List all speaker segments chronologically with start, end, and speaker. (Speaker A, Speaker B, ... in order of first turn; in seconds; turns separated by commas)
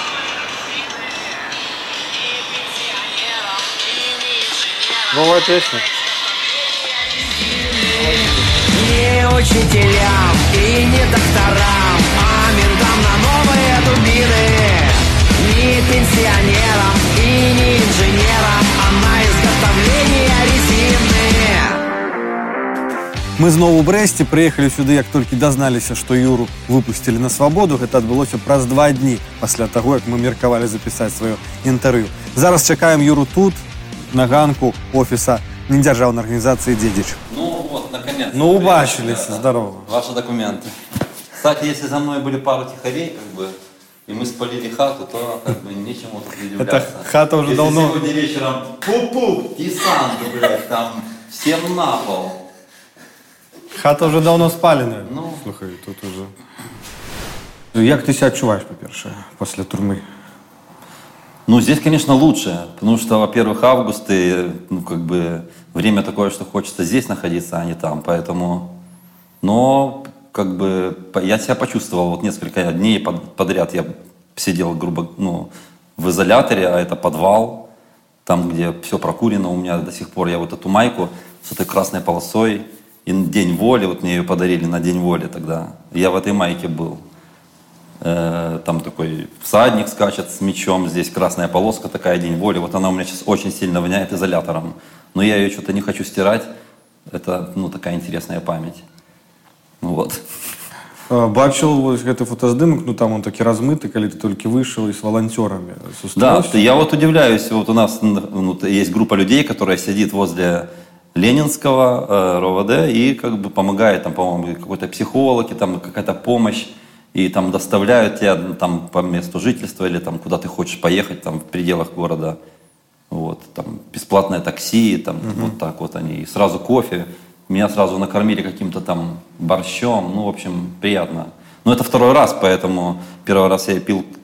Speaker A: 5.1-5.8, Speaker B: 8.7-21.8, Speaker A: 23.4-37.2, Speaker C: 37.3-40.7, Speaker A: 38.3-39.9, Speaker C: 41.3-43.5, Speaker C: 44.1-52.4, Speaker A: 46.6-48.0, Speaker A: 53.7-56.3, Speaker C: 55.0-55.4, Speaker A: 57.7-60.0, Speaker C: 61.5-68.8, Speaker C: 69.4-77.7, Speaker C: 78.2-87.0, Speaker C: 88.0-96.5, Speaker C: 97.1-98.8, Speaker C: 99.8-100.2, Speaker A: 101.1-106.6, Speaker C: 106.1-122.4, Speaker C: 123.1-134.1, Speaker A: 125.2-125.5